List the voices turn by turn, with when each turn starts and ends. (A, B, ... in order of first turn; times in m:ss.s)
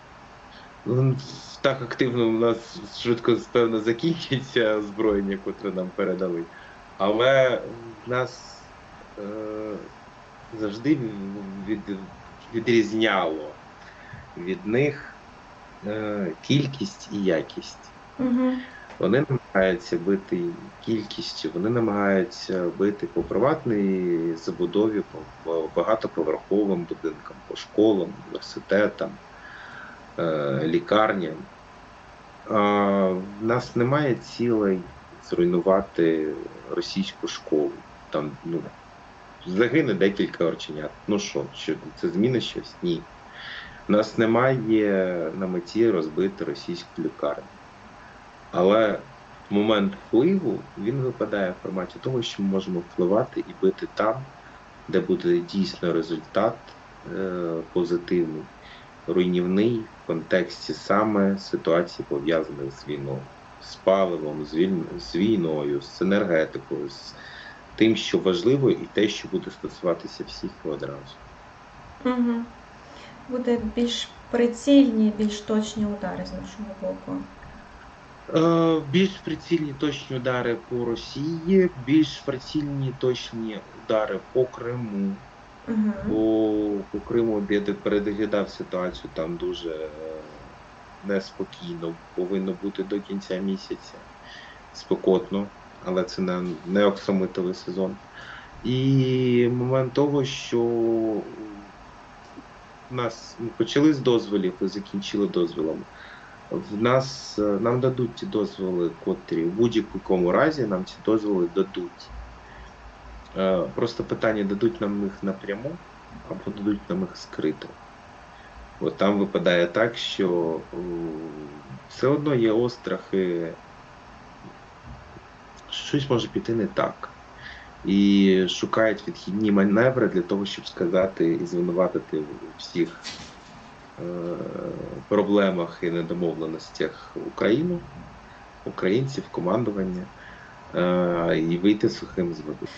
0:00.8-0:09.8 A
0:10.5-0:13.6 A
0:14.4-0:15.2 A
0:15.8-0:17.9 A
0:18.2-0:18.6 B
0:19.0-0:29.2 A
0:30.2-0:31.5 A
0:32.5-0:38.7 A
0:39.4-0:43.1 A
0:43.9-0:47.5 A
0:48.5-0:54.3 A
0:54.9-0:58.5 A
0:59.1-1:07.2 A
1:07.8-1:11.2 A
1:12.0-1:12.5 B
1:13.3-1:17.3 B
1:18.3-1:25.2 A
1:25.7-1:26.2 B
1:26.1-1:30.5 A
1:31.0-1:34.1 A
1:34.7-1:38.0 A
1:38.6-1:41.7 A
1:42.9-1:45.9 A
1:46.5-1:52.1 A
1:53.4-1:57.8 A
1:58.8-2:03.6 A
2:05.7-2:07.2 A
2:07.8-2:13.0 A
2:14.0-2:17.9 A
2:18.6-2:20.1 A
2:20.7-2:22.7 A